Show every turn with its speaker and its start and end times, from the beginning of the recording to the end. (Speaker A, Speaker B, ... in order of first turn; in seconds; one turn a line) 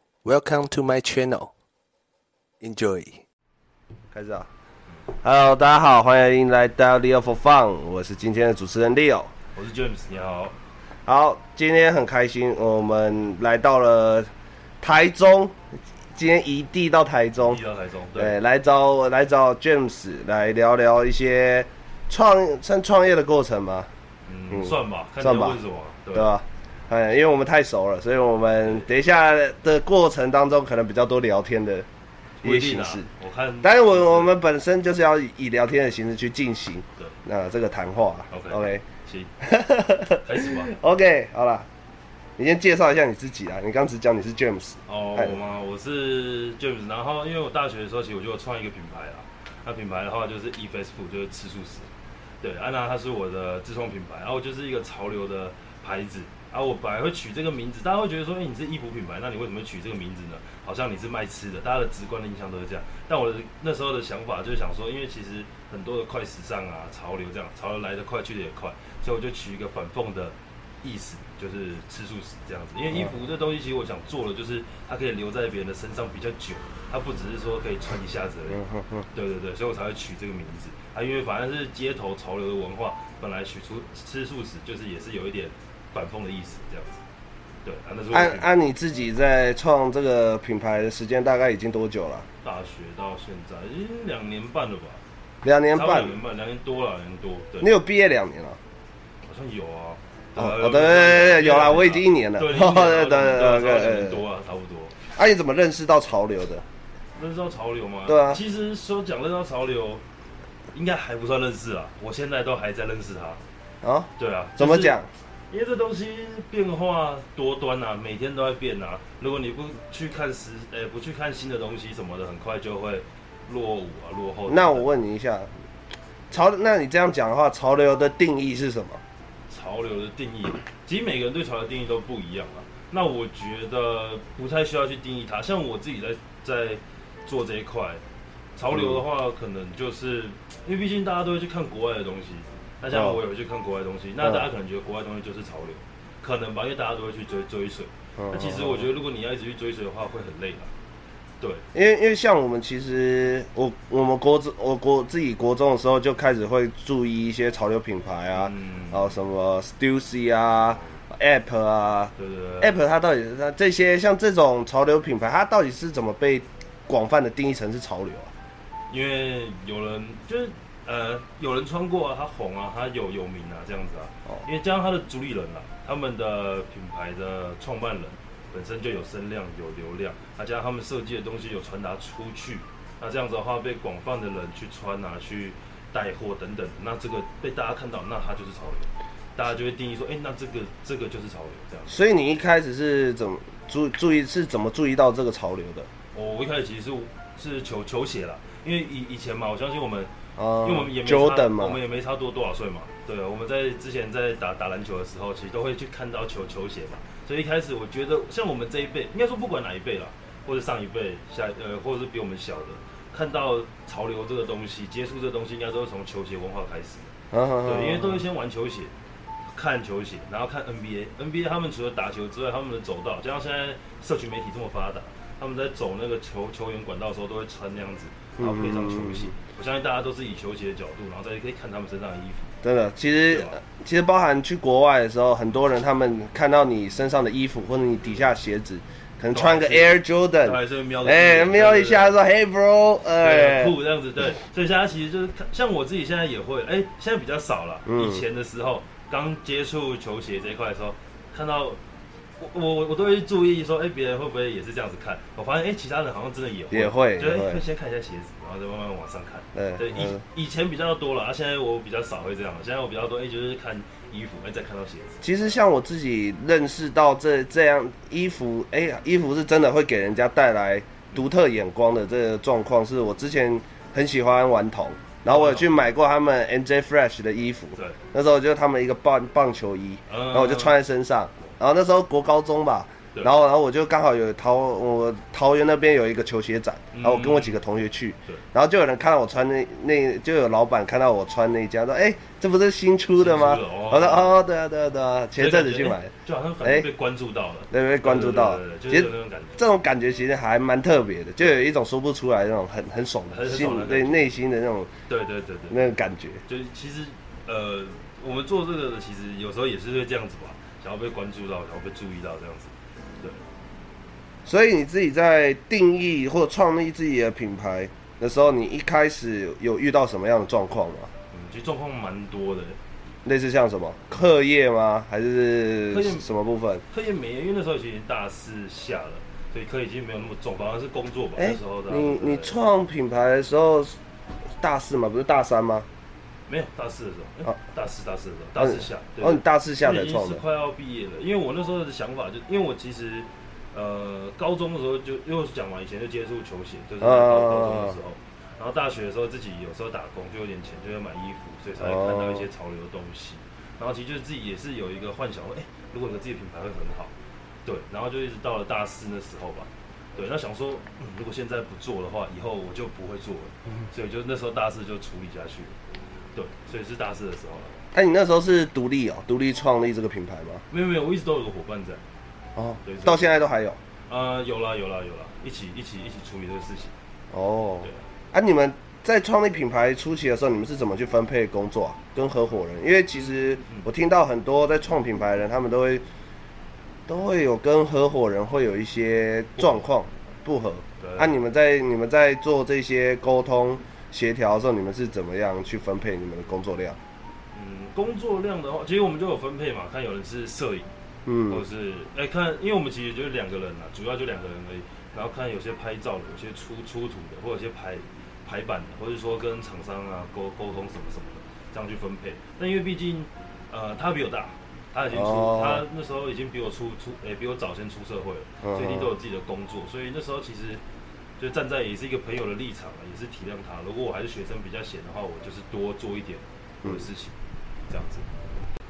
Speaker A: 0.2-1.5
Speaker A: 2.6-3.2
Speaker A: 4.1-4.5
Speaker A: 5.1-9.3
Speaker B: 9.6-10.6
Speaker A: 11.1-14.3
Speaker A: 14.8-15.6
Speaker A: 16.1-17.6
Speaker B: 17.4-18.4
Speaker A: 18.2-23.9
Speaker B: 24.3-26.4
Speaker A: 24.5-25.6
Speaker A: 26.1-31.9
Speaker A: 32.4-33.1
Speaker B: 32.4-34.3
Speaker A: 33.6-38.9
Speaker B: 38.3-39.3
Speaker A: 39.4-41.7
Speaker B: 40.2-40.8
Speaker A: 42.4-45.4
Speaker B: 44.9-51.9
Speaker B: 52.4-87.0
Speaker A: 78.5-79.0
Speaker B: 87.6-88.5
Speaker A: 88.1-92.3
Speaker B: 92.4-95.0
Speaker A: 95.4-96.2
Speaker B: 95.7-97.7
Speaker A: 97.6-98.6
Speaker B: 99.2-105.0
Speaker A: 100.4-104.2
Speaker A: 105.2-106.7
Speaker B: 107.2-110.0
Speaker A: 108.1-108.4
Speaker B: 110.7-113.4
Speaker A: 113.8-115.1
Speaker B: 114.2-115.0
Speaker B: 115.5-124.9
Speaker A: 124.5-125.5
Speaker A: 126.3-129.0
Speaker B: 129.5-138.0
Speaker B: 138.6-150.7
Speaker A: 138.7-139.0
Speaker A: 142.9-143.2
Speaker A: 144.2-144.5
Speaker A: 148.2-148.9
Speaker A: 151.7-168.3
Speaker B: 158.3-159.2
Speaker B: 162.2-162.8
Speaker B: 168.9-192.0
Speaker A: 191.9-195.9
Speaker B: 196.1-200.1
Speaker A: 200.4-201.8
Speaker B: 200.6-217.1
Speaker A: 217.3-218.2
Speaker B: 217.6-218.9
Speaker B: 219.5-232.5
Speaker A: 228.4-229.3
Speaker A: 232.6-243.8
Speaker B: 233.3-233.6
Speaker B: 239.3-242.2
Speaker B: 243.2-251.8
Speaker A: 247.9-248.2
Speaker B: 252.4-265.3
Speaker A: 256.7-257.6
Speaker A: 259.6-260.2
Speaker A: 265.2-296.1
Speaker B: 275.3-275.7
Speaker B: 280.1-280.8
Speaker B: 286.9-287.6
Speaker B: 293.2-294.4
Speaker B: 295.4-299.6
Speaker A: 296.6-296.9
Speaker A: 297.7-304.9
Speaker B: 303.3-304.3
Speaker B: 305.1-305.8
Speaker A: 305.7-306.4
Speaker B: 306.5-313.4
Speaker A: 314.4-321.1
Speaker B: 321.3-322.8
Speaker A: 323.2-326.8
Speaker B: 325.9-326.3
Speaker B: 326.9-332.6
Speaker A: 331.4-334.0
Speaker A: 334.6-335.9
Speaker B: 336.5-357.1
Speaker A: 338.6-340.4
Speaker A: 347.0-348.0
Speaker A: 351.8-352.5
Speaker B: 357.6-365.8
Speaker B: 366.4-367.8
Speaker A: 367.9-370.6
Speaker B: 370.7-372.0
Speaker A: 372.6-373.8
Speaker B: 372.9-373.3
Speaker B: 374.1-376.9
Speaker A: 377.3-386.0
Speaker B: 383.1-383.9
Speaker A: 387.1-397.0
Speaker B: 389.6-389.9
Speaker B: 391.0-391.3
Speaker B: 397.5-400.9
Speaker A: 401.3-401.6
Speaker B: 401.5-420.8
Speaker A: 415.1-415.8
Speaker A: 418.6-419.1
Speaker B: 421.4-427.4
Speaker B: 427.9-428.3